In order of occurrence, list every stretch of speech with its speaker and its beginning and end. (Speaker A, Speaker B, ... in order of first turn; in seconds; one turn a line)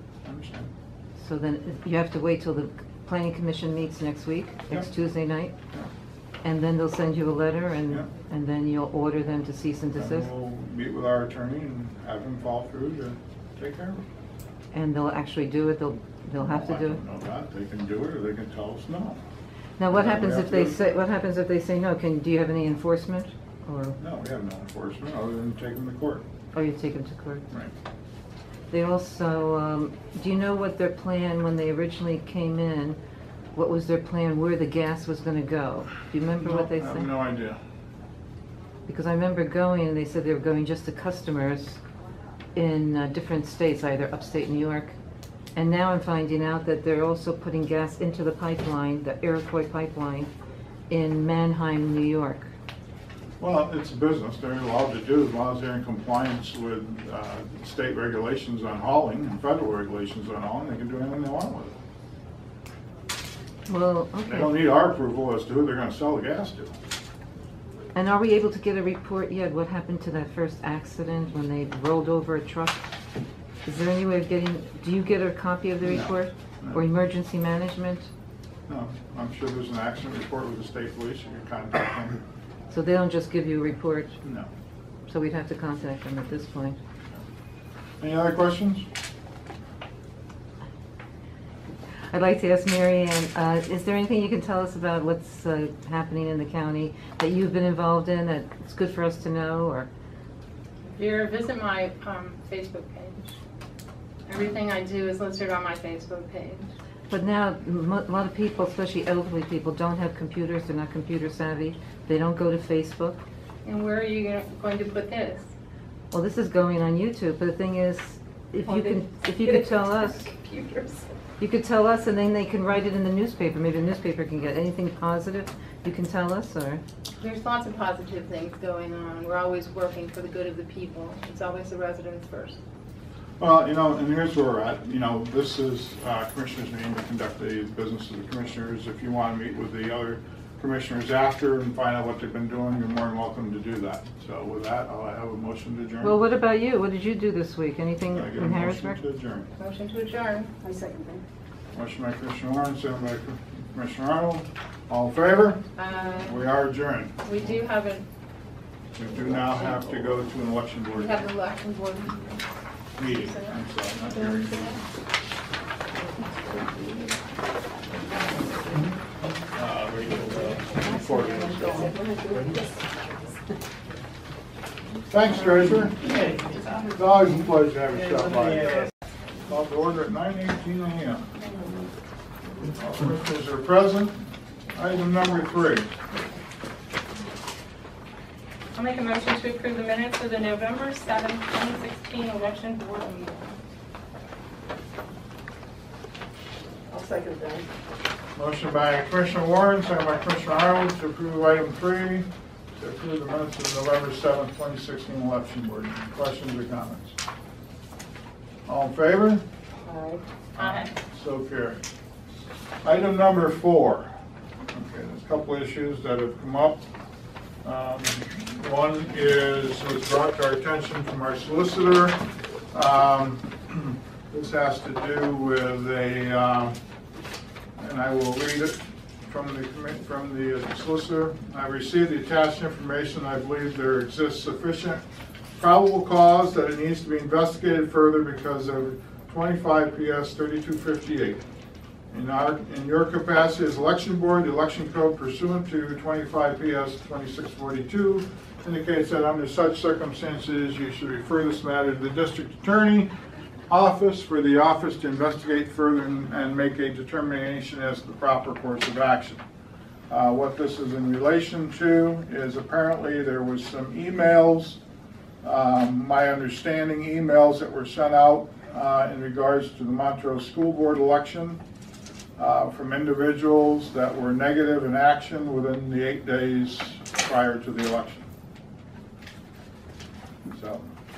Speaker A: 0.2-0.7
Speaker B: 1.2-5.5
Speaker B: 6.4-10.3
Speaker A: 9.9-14.0
Speaker B: 14.7-17.0
Speaker A: 16.4-19.2
Speaker B: 19.8-24.0
Speaker A: 19.9-20.8
Speaker A: 24.0-26.2
Speaker B: 26.5-27.4
Speaker B: 28.7-33.0
Speaker B: 33.5-37.1
Speaker A: 36.4-37.6
Speaker B: 38.9-41.8
Speaker B: 42.5-44.9
Speaker B: 45.5-50.3
Speaker B: 50.9-52.5
Speaker A: 53.4-61.7
Speaker B: 63.7-64.6
Speaker A: 64.3-66.7
Speaker B: 67.9-72.8
Speaker B: 73.6-78.1
Speaker A: 75.8-76.8
Speaker A: 78.7-82.2
Speaker B: 82.7-84.2
Speaker A: 84.2-84.5
Speaker B: 85.1-86.8
Speaker A: 88.0-88.8
Speaker B: 92.1-99.9
Speaker C: 100.9-103.4
Speaker C: 104.3-106.7
Speaker B: 107.1-113.2
Speaker C: 113.6-115.5
Speaker B: 116.1-120.3
Speaker C: 118.7-119.0
Speaker C: 120.3-121.0
Speaker D: 120.4-120.9
Speaker B: 121.4-126.8
Speaker C: 127.2-132.6
Speaker A: 133.4-146.2
Speaker B: 146.0-149.0
Speaker A: 148.1-149.5
Speaker C: 149.6-150.5
Speaker D: 150.6-151.2
Speaker A: 151.7-155.7
Speaker C: 155.8-156.4
Speaker A: 156.2-157.2
Speaker C: 157.2-158.1
Speaker A: 158.9-161.3
Speaker C: 160.9-162.4
Speaker A: 163.0-164.8
Speaker C: 163.1-163.5
Speaker C: 164.1-164.6
Speaker D: 166.2-167.1
Speaker D: 168.3-168.8
Speaker A: 169.5-171.9
Speaker D: 170.8-173.4
Speaker A: 175.1-176.0
Speaker A: 176.8-178.9
Speaker A: 179.5-181.3
Speaker D: 181.5-181.9
Speaker A: 182.8-185.9
Speaker C: 188.7-193.6
Speaker D: 196.9-197.7
Speaker A: 198.3-207.2
Speaker A: 208.7-209.4
Speaker D: 209.8-210.2
Speaker A: 210.6-211.8
Speaker C: 210.6-210.9
Speaker A: 212.8-214.1
Speaker A: 214.7-216.8
Speaker A: 217.6-226.8
Speaker A: 227.8-235.0
Speaker A: 235.5-241.4
Speaker A: 242.1-253.1
Speaker A: 253.7-259.4
Speaker A: 260.1-264.8
Speaker A: 265.4-271.6
Speaker A: 272.4-278.3
Speaker A: 280.4-280.9